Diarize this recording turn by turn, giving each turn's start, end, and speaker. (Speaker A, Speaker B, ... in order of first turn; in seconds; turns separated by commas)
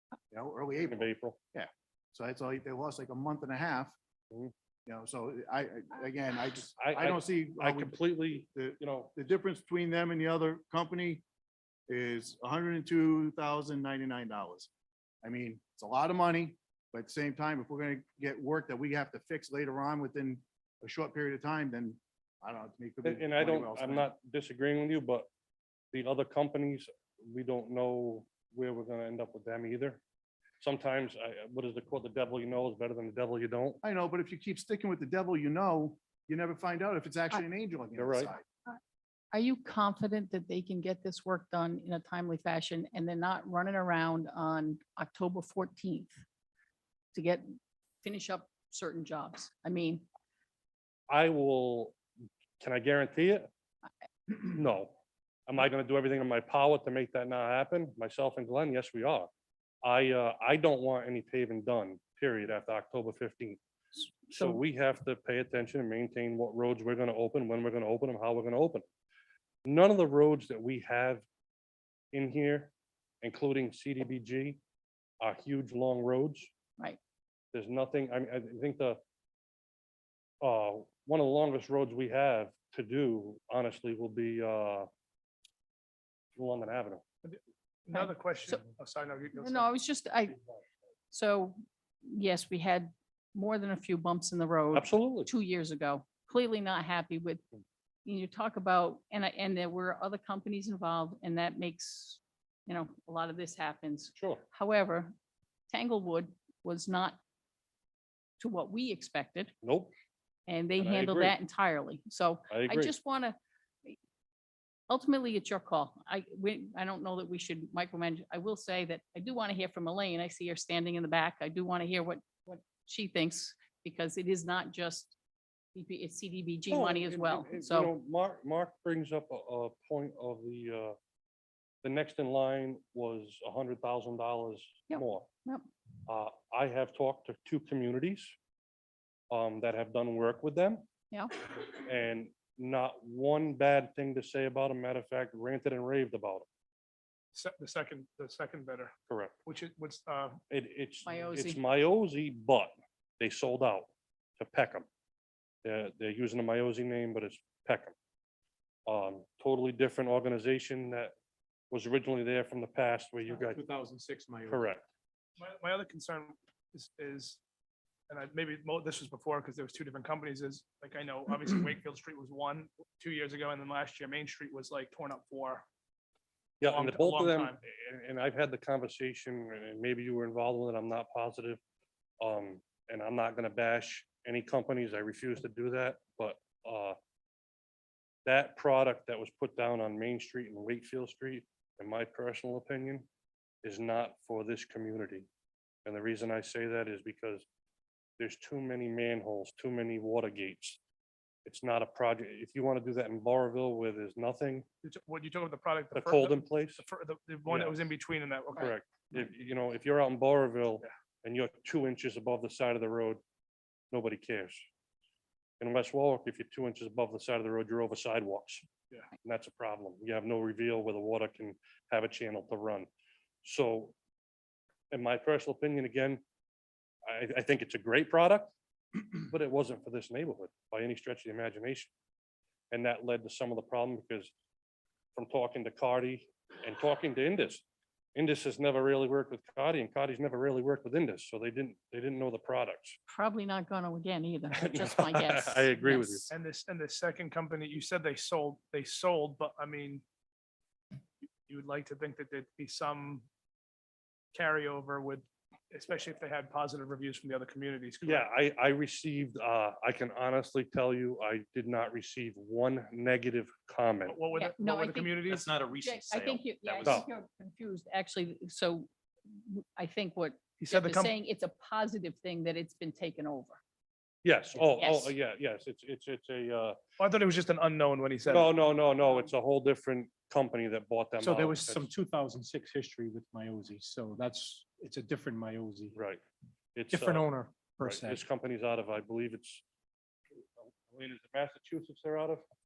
Speaker A: 0.3-3.9, Speaker B: 0.8-1.4, Speaker A: 4.9-11.2, Speaker B: 6.8-9.1, Speaker A: 11.9-14.7, Speaker A: 15.2-24.1, Speaker B: 23.0-25.3, Speaker B: 25.9-30.0, Speaker B: 30.6-33.8, Speaker A: 33.8-38.5, Speaker B: 38.0-38.3, Speaker C: 39.3-46.2, Speaker C: 47.1-50.1, Speaker B: 51.1-52.0, Speaker B: 52.6-53.5, Speaker B: 54.4-59.3, Speaker B: 59.8-63.6, Speaker B: 64.3-68.9, Speaker B: 69.7-71.2, Speaker B: 72.1-74.6, Speaker B: 75.2-76.5, Speaker B: 77.5-79.0, Speaker B: 80.4-84.9, Speaker B: 86.3-87.0, Speaker D: 87.2-89.7, Speaker C: 87.9-88.6, Speaker C: 89.4-90.4, Speaker C: 91.1-97.5, Speaker B: 94.7-95.3, Speaker C: 98.0-105.1, Speaker B: 104.2-104.5, Speaker C: 105.7-107.2, Speaker C: 108.4-109.5, Speaker B: 109.6-109.9, Speaker C: 110.5-114.0, Speaker B: 110.8-111.3, Speaker B: 112.5-112.9, Speaker C: 114.9-125.2, Speaker C: 125.8-127.9, Speaker B: 126.7-131.0, Speaker B: 131.8-135.3, Speaker C: 134.9-135.7, Speaker B: 136.1-138.3, Speaker B: 139.3-140.8, Speaker B: 141.6-146.5, Speaker D: 147.3-148.9, Speaker B: 149.1-149.4, Speaker D: 149.5-150.4, Speaker B: 150.5-154.9, Speaker C: 151.1-151.6, Speaker B: 155.6-157.9, Speaker B: 158.9-161.1, Speaker B: 161.7-163.6, Speaker E: 163.3-164.7, Speaker B: 164.5-164.8, Speaker D: 165.4-167.4, Speaker D: 168.1-175.7, Speaker B: 176.6-181.6, Speaker D: 176.7-177.6, Speaker B: 182.2-187.0, Speaker B: 188.2-193.1, Speaker B: 193.6-195.3, Speaker B: 195.8-197.4, Speaker B: 198.2-200.8, Speaker B: 201.5-204.7, Speaker D: 204.8-208.8, Speaker B: 205.9-206.8, Speaker B: 207.5-207.9, Speaker B: 208.6-213.2, Speaker B: 213.9-214.7, Speaker B: 215.6-218.7, Speaker B: 219.2-222.9, Speaker B: 223.4-223.9, Speaker B: 224.9-226.2, Speaker B: 227.1-228.5, Speaker B: 229.2-231.9, Speaker B: 232.7-234.3, Speaker B: 235.2-237.6, Speaker B: 238.2-243.0, Speaker C: 243.1-246.3, Speaker B: 244.6-246.3, Speaker D: 246.3-250.0, Speaker D: 251.5-253.3, Speaker D: 254.3-258.3, Speaker B: 258.0-264.2, Speaker D: 264.1-265.6, Speaker C: 264.4-273.6, Speaker E: 265.3-267.0, Speaker D: 270.6-271.1, Speaker B: 274.2-276.8, Speaker C: 274.6-275.1, Speaker D: 277.0-278.5, Speaker B: 278.3-281.9, Speaker E: 281.2-286.0, Speaker B: 285.9-286.2, Speaker B: 286.8-287.3, Speaker E: 286.9-288.2, Speaker B: 287.8-289.6, Speaker B: 290.6-292.4